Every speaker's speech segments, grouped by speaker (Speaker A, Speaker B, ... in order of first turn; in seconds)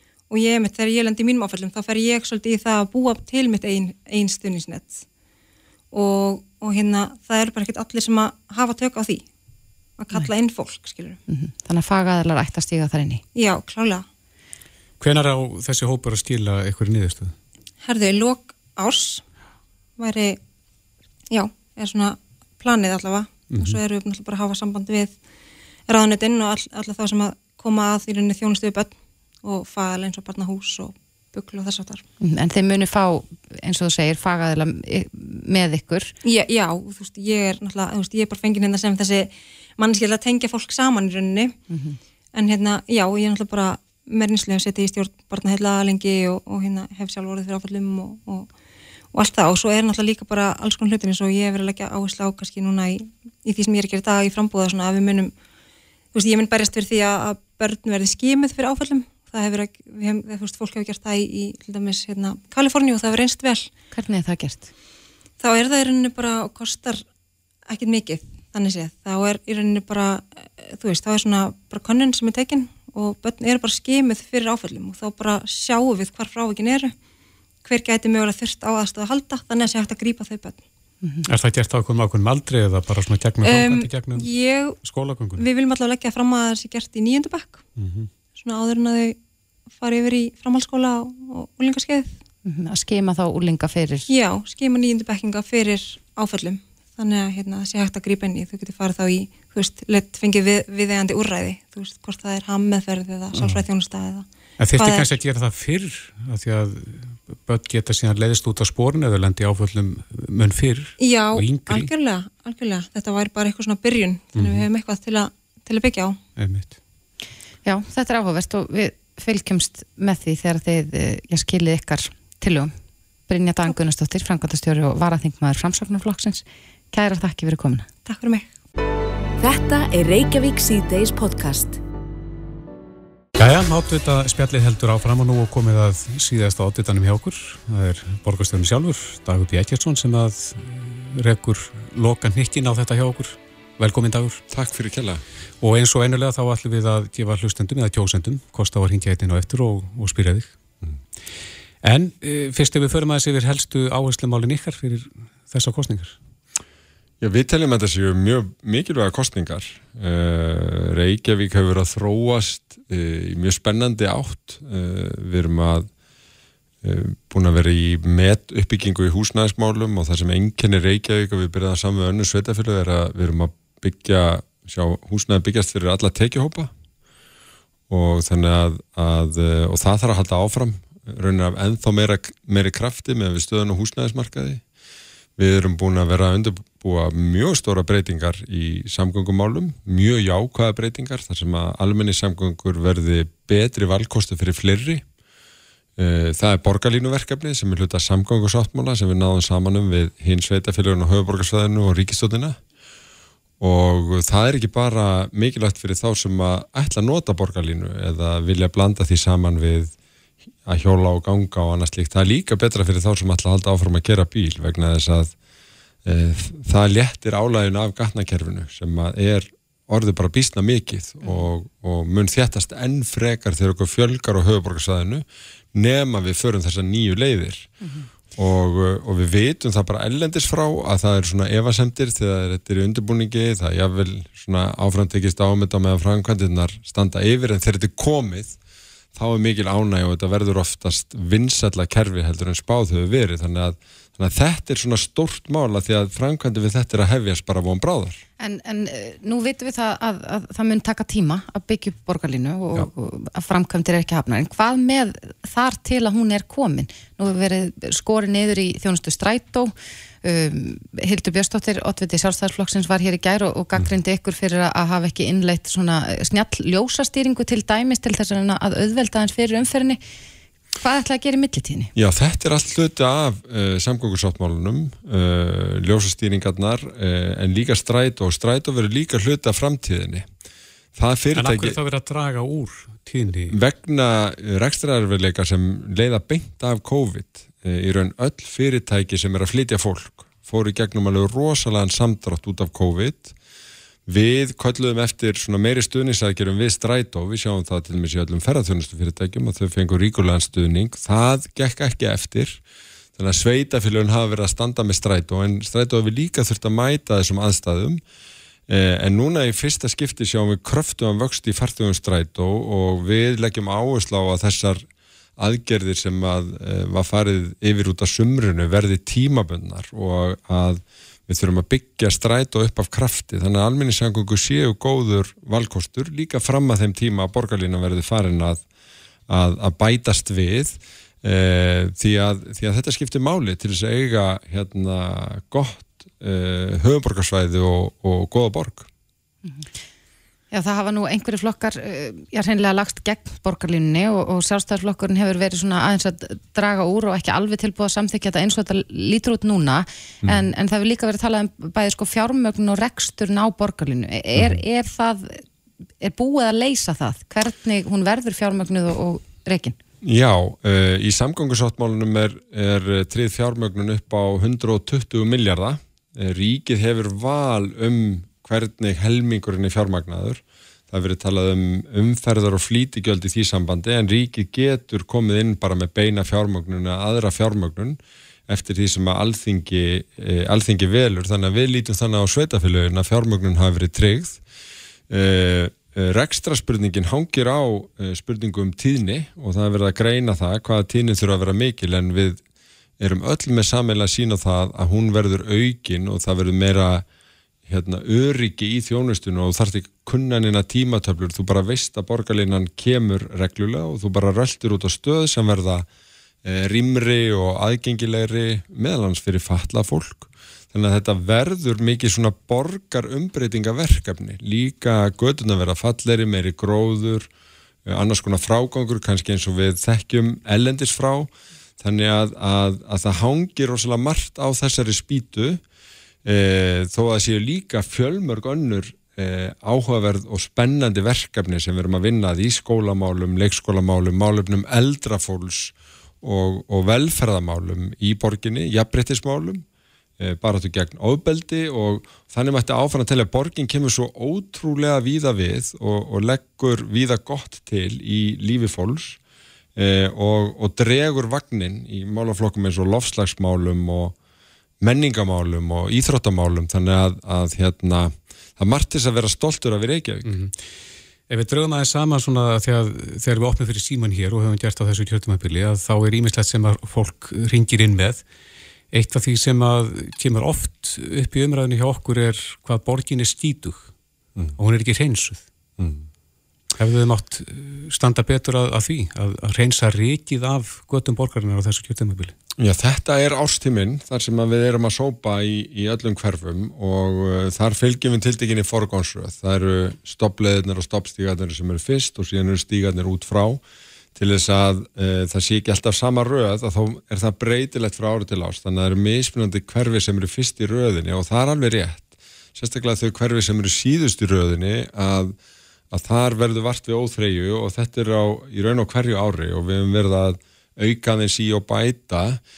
Speaker A: 0.3-5.0, 5.9-9.2, 10.0-11.2, 13.3-14.0, 17.8-19.2, 20.0-20.4, 21.3-25.2, 25.9-32.0, 36.2-41.5, 42.3-48.5, 49.1-55.3, 56.1-63.7, 65.4-67.0, 67.7-76.9, 77.6-80.6, 83.4-84.8, 85.4-87.6, 88.3-89.2, 89.8-92.2, 94.1-105.1, 111.0-116.2, 128.1-128.5
Speaker B: 11.3-13.2, 32.2-36.1, 41.7-42.0, 63.9-64.7, 92.4-94.1, 117.6-122.7, 123.3-127.9, 221.2-221.5, 248.4-270.0, 270.8-271.9, 340.5-355.4, 356.0-359.8
Speaker C: 15.0-17.3, 23.5-23.8, 81.2-85.4, 87.8-88.1, 103.3-103.6, 104.6-111.9, 114.3-114.7, 116.3-116.7, 133.4-144.4, 145.6-150.5, 151.8-156.2, 281.3-283.5, 460.2-460.6, 461.3-468.2, 468.9-473.9, 474.6-475.4, 476.8-482.3
Speaker D: 129.4-131.8
Speaker E: 144.5-145.2, 157.2-165.9, 166.8-176.7, 177.9-184.6, 185.4-195.0, 196.0-202.6, 203.6-209.9, 210.6-215.3, 216.0-227.7, 228.3-238.6, 239.1-248.2, 271.9-280.2, 280.9-281.8, 283.5-293.3, 294.1-302.6, 303.1-308.0, 308.7-314.8, 315.4-328.6, 329.3-338.9, 360.0-384.4, 385.1-392.4, 393.0-397.0, 397.7-405.9, 406.4-417.3, 417.9-421.3, 421.8-425.6, 426.2-439.6, 440.2-449.2, 449.8-454.1, 454.8-460.3, 475.8-476.1, 482.6-493.6, 494.1-505.3, 505.9-512.4